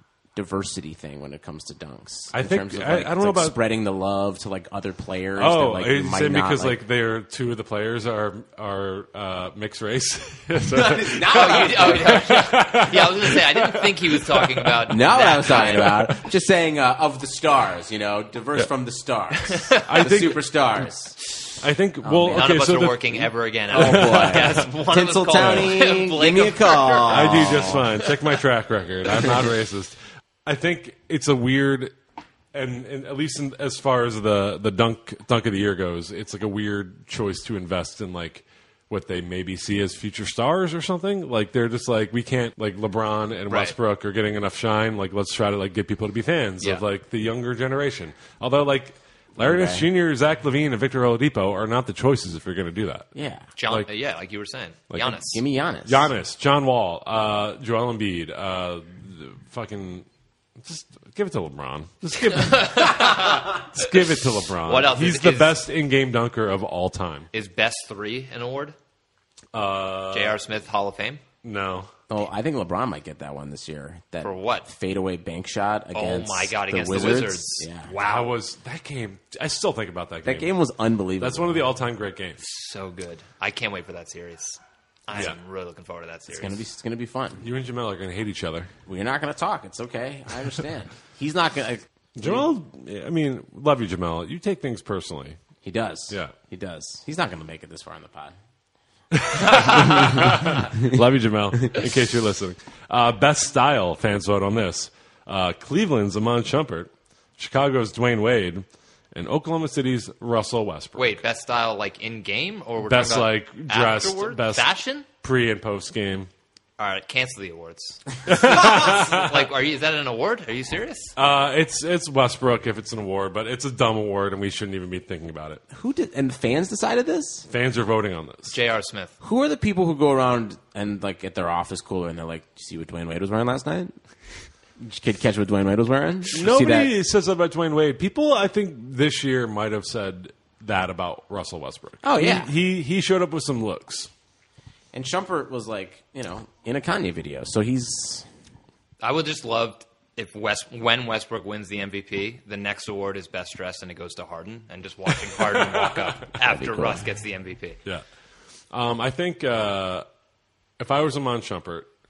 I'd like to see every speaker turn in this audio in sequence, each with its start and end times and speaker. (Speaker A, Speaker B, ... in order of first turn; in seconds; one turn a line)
Speaker A: 0.3-6.8
Speaker B: 2.3-3.6
Speaker B: 5.4-14.8
Speaker A: 10.7-12.5
Speaker C: 11.3-16.0
Speaker A: 14.9-21.2
Speaker B: 15.6-16.2
Speaker C: 19.5-19.9
Speaker B: 19.8-20.5
Speaker B: 21.6-24.7
Speaker A: 22.0-22.5
Speaker C: 22.3-28.0
Speaker A: 23.7-27.9
Speaker B: 25.4-25.7
Speaker B: 27.1-31.9
Speaker B: 32.5-53.1
Speaker C: 43.5-43.8
Speaker A: 49.4-49.9
Speaker A: 53.1-53.5
Speaker C: 53.6-55.4
Speaker A: 55.1-56.1
Speaker B: 55.9-60.1
Speaker B: 60.6-67.3
Speaker C: 62.2-63.9
Speaker C: 64.7-65.6
Speaker C: 67.3-68.8
Speaker B: 69.5-70.4
Speaker C: 70.1-71.2
Speaker B: 71.4-71.9
Speaker A: 72.1-77.9
Speaker C: 74.2-74.7
Speaker C: 75.9-78.3
Speaker B: 78.0-80.5
Speaker A: 80.2-81.6
Speaker B: 81.2-82.4
Speaker C: 82.4-86.6
Speaker A: 86.3-87.4
Speaker B: 87.4-88.7
Speaker A: 88.9-92.5
Speaker B: 92.2-95.4
Speaker A: 95.6-98.3
Speaker B: 99.1-111.2
Speaker A: 99.7-100.9
Speaker C: 111.0-115.1
Speaker B: 112.9-114.7
Speaker B: 115.2-116.3
Speaker C: 116.8-121.2
Speaker B: 118.3-119.4
Speaker B: 121.2-125.6
Speaker A: 125.7-127.5
Speaker B: 127.5-128.5
Speaker C: 128.5-129.1
Speaker A: 129.2-133.9
Speaker A: 134.8-136.9
Speaker B: 136.3-144.1
Speaker A: 142.0-142.5
Speaker A: 144.9-148.3
Speaker C: 149.0-157.8
Speaker B: 155.4-156.1
Speaker A: 156.5-157.0
Speaker B: 158.7-160.1
Speaker B: 160.8-161.9